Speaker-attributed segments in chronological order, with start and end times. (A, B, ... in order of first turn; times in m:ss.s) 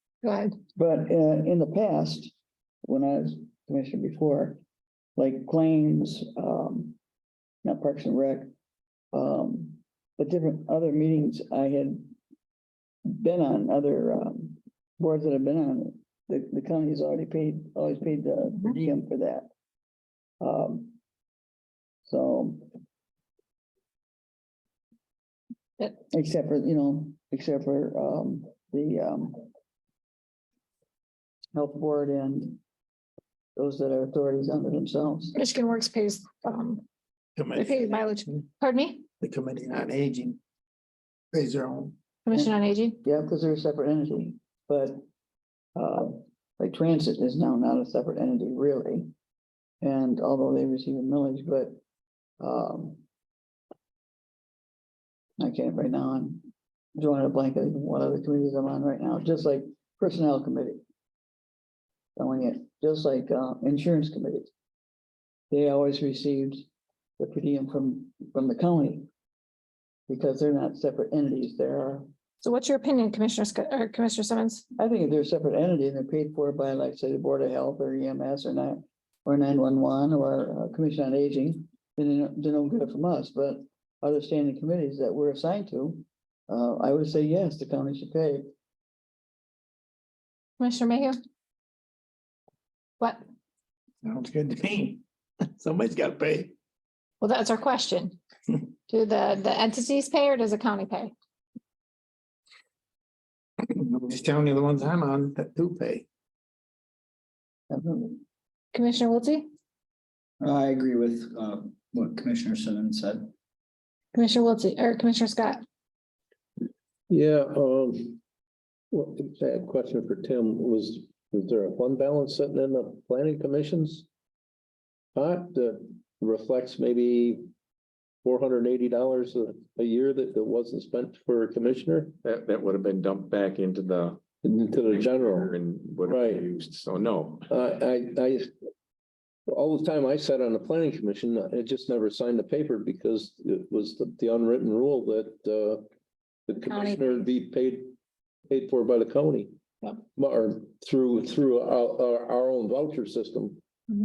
0:00.2-0:00.6 A
0:00.8-0:04.6 B
0:05.2-0:07.0 B
0:07.6-0:08.5 B
0:09.1-0:12.2 B
0:13.1-0:19.5 B
0:20.4-0:21.0 B
0:22.1-0:22.7 B
0:26.1-0:29.5 B
0:31.5-0:32.6 B
0:33.6-0:35.3 B
0:35.3-0:36.8 A
0:37.4-0:38.4 C
0:37.5-0:39.1 A
0:39.2-0:40.4 C
0:41.3-0:42.0 C
0:42.2-0:43.0 A
0:43.0-0:45.0 B
0:45.8-0:49.1 B
0:49.8-0:51.8 B
0:52.4-0:53.0 B
0:55.4-0:56.4 B
0:57.0-1:00.8 B
1:02.2-1:04.5 B
1:05.5-1:06.7 B
1:07.2-1:09.1 B
1:10.1-1:12.1 B
1:12.4-1:14.6 A
1:14.8-1:28.5 B
1:30.6-1:31.2 A
1:34.0-1:35.0 C
1:35.6-1:36.6 C
1:37.2-1:38.2 A
1:38.9-1:41.1 A
1:43.6-1:46.1 C
1:47.7-1:48.2 B
1:48.7-1:49.5 A
1:50.4-1:53.3 D
1:54.1-1:55.6 A
1:57.1-1:58.2 E
1:58.9-2:04.1 E
2:05.2-2:07.4 E
2:08.2-2:12.2 E
2:12.2-2:14.2 F
2:14.4-2:16.5 E
2:14.9-2:17.5 F
2:17.5-2:18.5 E
2:19.5-2:25.8 E
2:26.5-2:27.9 E
2:26.7-2:27.2 A
2:28.5-2:29.5 E
2:30.2-2:33.6 E